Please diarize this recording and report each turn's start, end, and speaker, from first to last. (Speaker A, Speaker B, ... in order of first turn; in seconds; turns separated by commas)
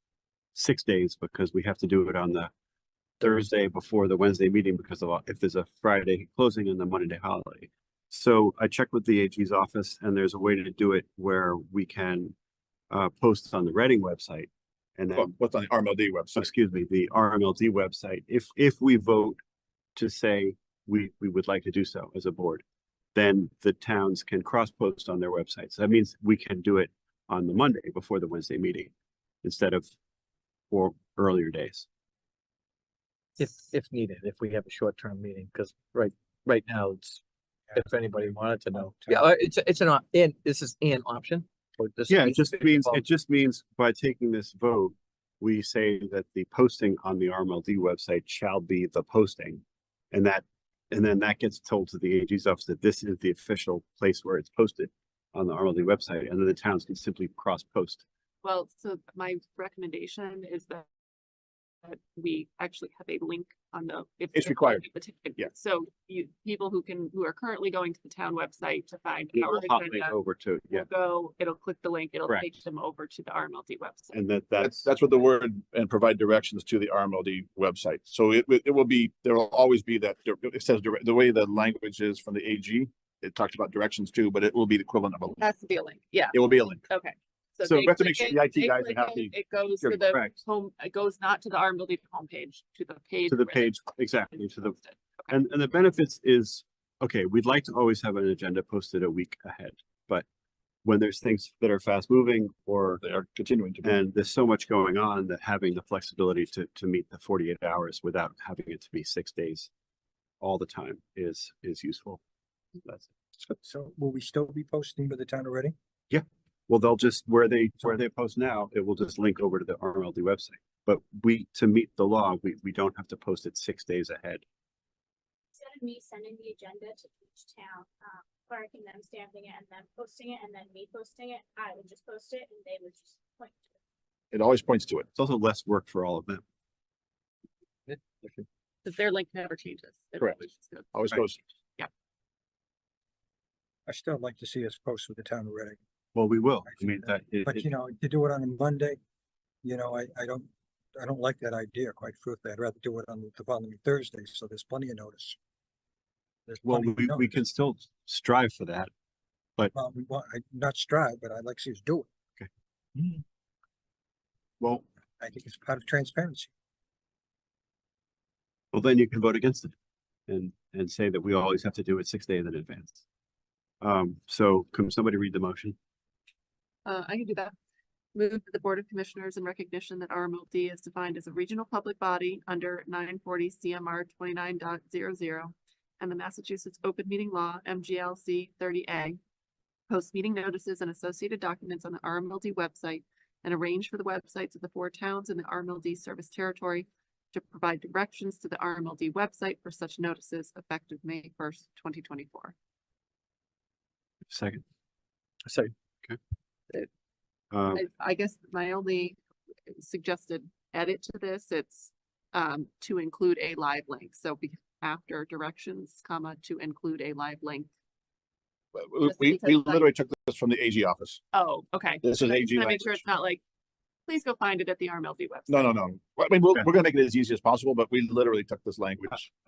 Speaker A: 0.5-2.5, Speaker A: 3.2-12.3, Speaker A: 12.9-15.3, Speaker B: 15.1-16.5, Speaker A: 16.3-19.4, Speaker A: 19.9-22.6, Speaker A: 23.1-28.9, Speaker A: 29.4-29.9, Speaker A: 30.7-31.9, Speaker C: 33.4-37.2, Speaker C: 37.7-43.0, Speaker A: 42.1-58.0, Speaker D: 58.4-60.8, Speaker D: 61.8-70.2, Speaker B: 64.3-64.8, Speaker A: 69.3-70.9, Speaker D: 70.7-74.1, Speaker A: 72.3-72.5, Speaker A: 74.1-74.9, Speaker B: 74.6-85.5, Speaker D: 85.4-93.8, Speaker B: 86.3-86.8, Speaker B: 87.8-90.0, Speaker A: 93.3-94.8, Speaker D: 94.5-94.8, Speaker A: 95.3-100.2, Speaker A: 100.8-103.0, Speaker B: 103.0-103.9, Speaker A: 103.8-109.7, Speaker A: 110.4-112.2, Speaker E: 113.5-115.7, Speaker A: 116.1-124.4, Speaker F: 125.5-133.7, Speaker B: 134.3-135.1, Speaker A: 135.1-136.4, Speaker C: 137.9-138.4, Speaker D: 138.8-141.2, Speaker B: 140.9-141.4, Speaker E: 143.9-145.8, Speaker A: 146.1-147.7, Speaker E: 146.7-149.0, Speaker E: 149.6-155.4, Speaker E: 156.5-157.3, Speaker A: 156.6-158.9, Speaker E: 159.7-162.1, Speaker E: 162.9-163.2, Speaker E: 165.2-166.5, Speaker A: 168.7-169.7, Speaker A: 170.3-173.0, Speaker A: 173.8-175.8, Speaker D: 176.8-177.5, Speaker D: 178.1-189.2, Speaker D: 189.9-202.5, Speaker A: 204.3-204.6, Speaker C: 205.5-205.7, Speaker A: 207.5-207.8, Speaker D: 207.7-209.2, Speaker D: 209.7-217.7, Speaker B: 218.7-221.2, Speaker D: 219.0-219.9, Speaker D: 221.3-223.4, Speaker B: 222.0-223.0, Speaker D: 224.1-225.7, Speaker B: 225.5-229.3